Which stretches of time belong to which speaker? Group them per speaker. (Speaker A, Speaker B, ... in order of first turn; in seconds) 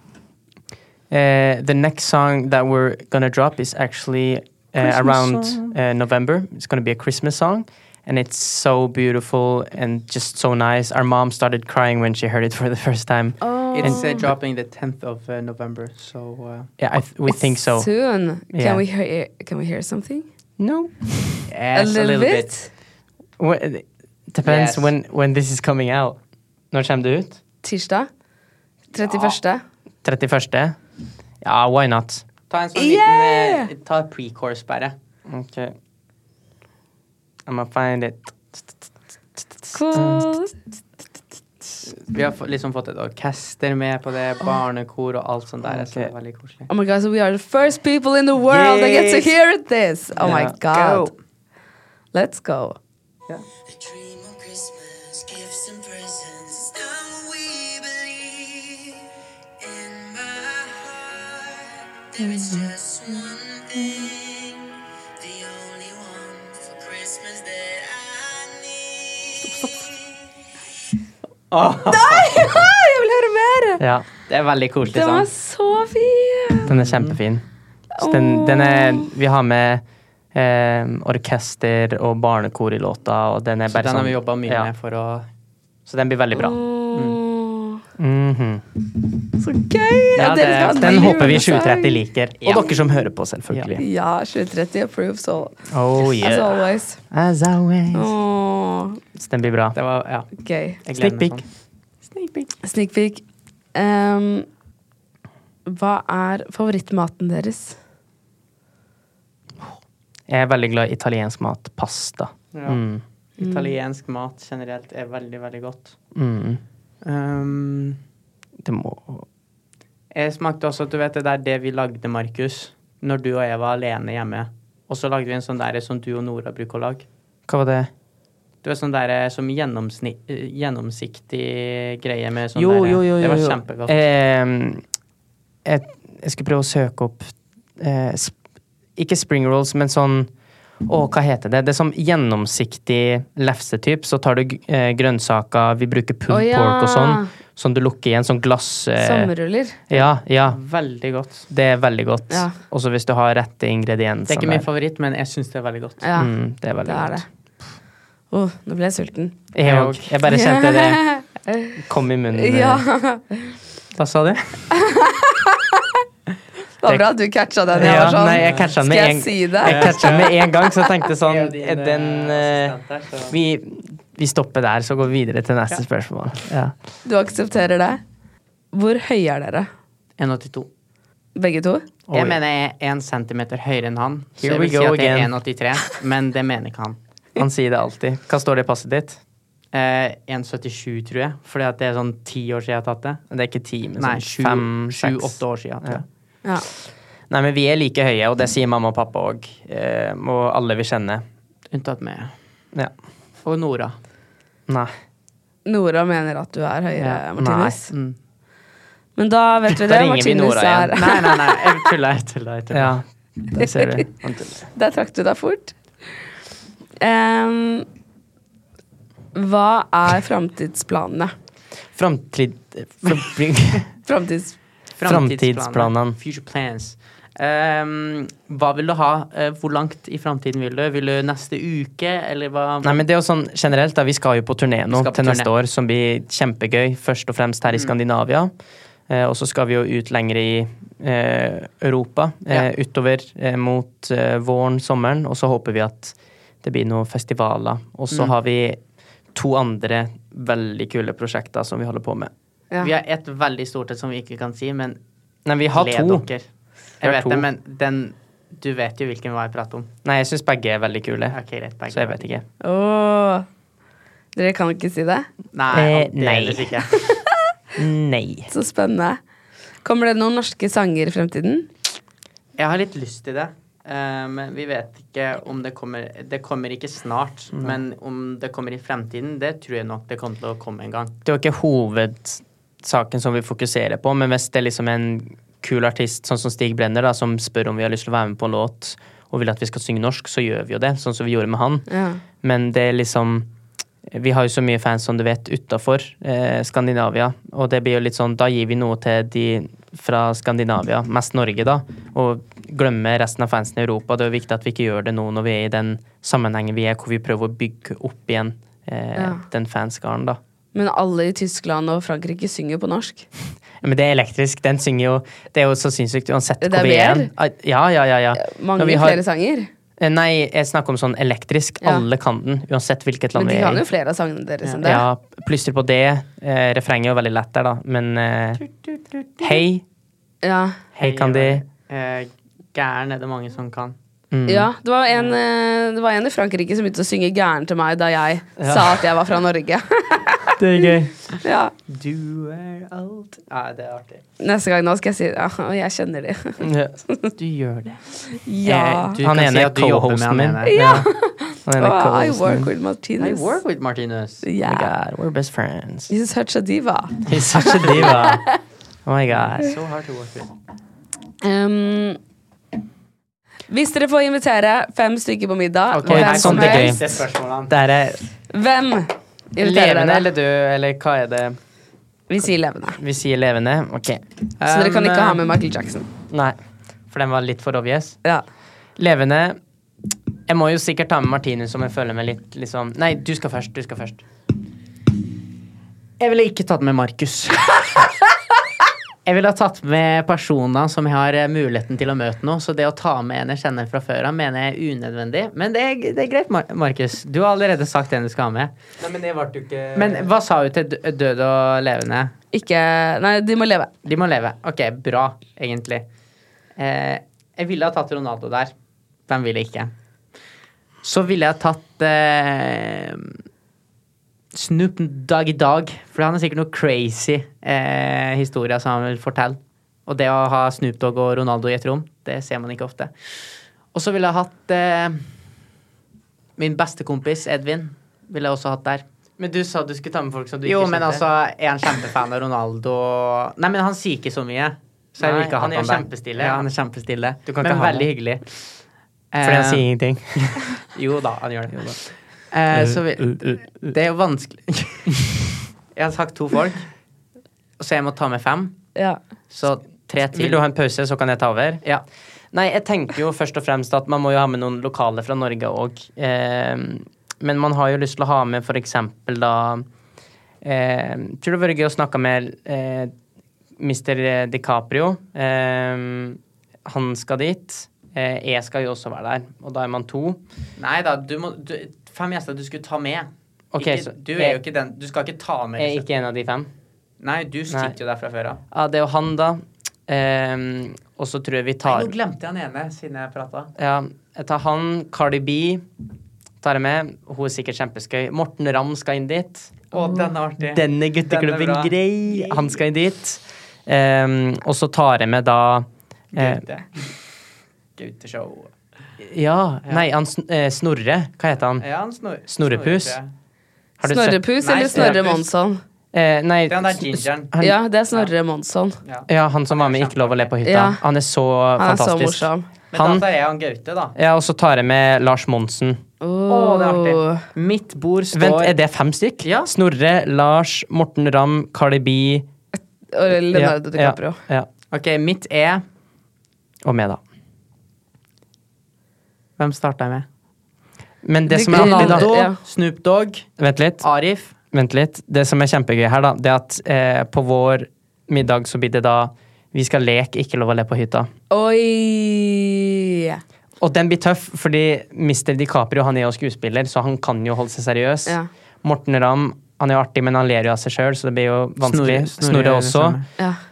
Speaker A: 1.1-14.0, 16.8-17.9, 18.5-18.8, 20.6-21.4, 23.4-26.2, 26.7-27.4, 30.0-30.8, 31.4-32.2, 35.3-35.7, 37.5-38.8, 40.0-40.2, 45.6-46.1, 50.2-50.5, 73.8-74.1, 76.7-77.4, 78.0-79.8, 80.3-84.7, 85.9-86.6, 88.0-88.6, 90.7-93.8, 95.7-98.1, 99.2-99.8, 101.0-101.4, 110.3-113.0, 116.2-116.6, 118.6-119.3, 127.5-127.9, 132.6-134.8, 135.7-138.3, 139.0-140.3, 140.9-149.3, 149.9-150.6, 151.5-154.7, 156.2-157.2, 159.5-161.1, 161.9-162.8, 167.8-172.7, 173.3-176.7, 182.1-182.4, 184.4-185.3, 187.4-189.2, 193.3-196.0, 197.3-201.2, 207.3-207.8, 209.8-211.0, 212.7-214.7, 221.9-223.9, 225.1-226.2, 232.8-238.5, 239.1-248.8, 249.3-252.3, 255.5-256.3, 257.0-257.5, 260.0-261.4, 261.9-262.4, 265.7-266.8, 267.8-268.5, 281.2-291.9, 292.4-293.5, 294.1-310.4, 313.8-319.2, 320.0-323.8, 324.8-328.6, 329.4-329.8, 331.0-331.6, 334.3-334.7, 338.6-339.1, 340.6-341.2, 346.6-347.0, 349.2-351.1, 351.6-352.7, 354.6-356.1, 357.3-358.5, 359.1-359.8, 366.0-368.2, 369.6-371.6, 373.0-374.2, 376.3-376.6, 377.1-378.2, 379.0-379.6, 380.5-384.2, 399.0-400.3, 429.4-431.2, 435.2-436.7, 437.4-438.1, 439.4-440.8, 442.7-443.9, 450.3-451.9, 452.5-459.9, 460.6-463.1, 463.8-470.4, 473.7-474.6, 475.8-476.7, 477.7-477.9, 478.7-482.1, 483.8-485.8, 486.6-489.9, 490.6-496.6, 499.2-501.9, 502.5-503.2, 504.0-505.2, 506.1-507.8, 509.3-513.2, 514.2-516.0, 518.3-522.5, 523.5-524.7, 526.9-527.2, 531.2-532.3, 533.6-534.0, 534.7-541.3, 543.8-553.2
Speaker B: 4.8-5.7, 13.8-16.7, 21.5-22.5, 24.4-24.9, 29.0-29.4, 32.5-35.0, 42.1-46.7, 48.5-49.3, 50.2-51.1, 56.7-57.4, 62.2-64.2, 71.5-72.6, 74.3-75.3, 76.7-77.2, 83.7-85.3, 86.9-87.2, 90.2-91.5, 92.4-93.7, 99.8-100.3, 100.8-101.4, 102.0-102.5, 112.5-112.8, 113.4-115.9, 117.0-118.0, 120.1-127.0, 128.6-133.9, 150.5-151.5, 154.3-156.1, 159.6-160.1, 164.0-164.6, 167.7-168.8, 169.6-170.5, 171.3-173.3, 180.2-180.7, 182.1-187.0, 189.7-193.2, 194.0-196.1, 201.7-202.3, 203.4-204.0, 207.9-208.2, 210.9-213.0, 225.0-233.0, 234.9-235.5, 252.8-255.0, 255.7-256.4, 257.0-259.9, 261.3-262.2, 265.5-266.9, 272.6-281.1, 328.6-329.6, 331.0-333.9, 341.9-344.2, 347.4-348.0, 348.6-350.8, 353.2-354.4, 357.9-358.1, 359.3-360.5, 365.9-367.8, 374.6-375.4, 386.2-388.2, 389.2-399.3, 399.9-402.3, 404.0-406.1, 406.8-408.7, 409.3-409.9, 411.0-413.4, 414.5-423.3, 423.9-425.2, 426.6-429.0, 430.6-438.4, 439.3-439.9, 440.9-445.1, 445.9-446.9, 447.8-448.8, 449.5-450.6, 470.8-476.1, 477.2-478.6, 481.9-483.7, 489.9-492.8, 496.3-497.2, 498.0-498.7, 501.8-503.3, 504.6-505.4, 506.7-507.5, 509.0-510.6, 512.9-514.1, 516.5-518.8, 519.4-519.7, 524.9-525.8, 529.6-530.3, 531.6-533.5, 534.0-534.5, 551.8-553.2
Speaker C: 13.4-14.3, 17.3-20.3, 21.8-22.7, 27.6-28.1, 28.9-29.6, 32.8-33.7, 39.7-40.5, 46.7-51.1, 52.1-52.8, 71.9-73.8, 74.9-76.7, 78.0-79.1, 86.3-87.8, 89.4-92.0, 93.8-97.0, 97.9-99.0, 100.3-100.8, 102.6-103.2, 103.7-104.5, 105.7-107.8, 113.4-113.7, 146.3-147.3, 149.0-149.9, 152.3-152.6, 156.0-156.3, 156.8-157.2, 158.3-159.4, 160.3-161.8, 162.3-163.6, 164.7-165.7, 166.8-169.9, 177.1-178.0, 178.7-179.7, 181.4-181.9, 205.7-207.9, 209.2-211.3, 213.6-214.0, 214.8-215.8, 217.0-217.9, 219.3-221.3, 224.1-224.6, 262.6-263.5, 264.4-265.3, 268.5-269.2, 269.8-271.7, 291.9-292.2, 309.2-309.4, 310.7-313.3, 316.6-317.3, 318.4-319.7, 323.4-325.0, 330.4-330.8, 334.5-340.6, 341.4-341.7, 344.4-347.3, 348.4-349.2, 350.7-353.5, 354.4-354.9, 356.1-358.6, 361.4-362.2, 363.7-367.0, 368.5-370.3, 372.3-373.0, 374.7-376.1, 402.5-403.9, 504.0-505.8, 507.6-509.0, 510.6-511.0, 511.8-512.7, 516.2-517.4, 522.7-524.4, 531.5-532.6, 541.5-543.4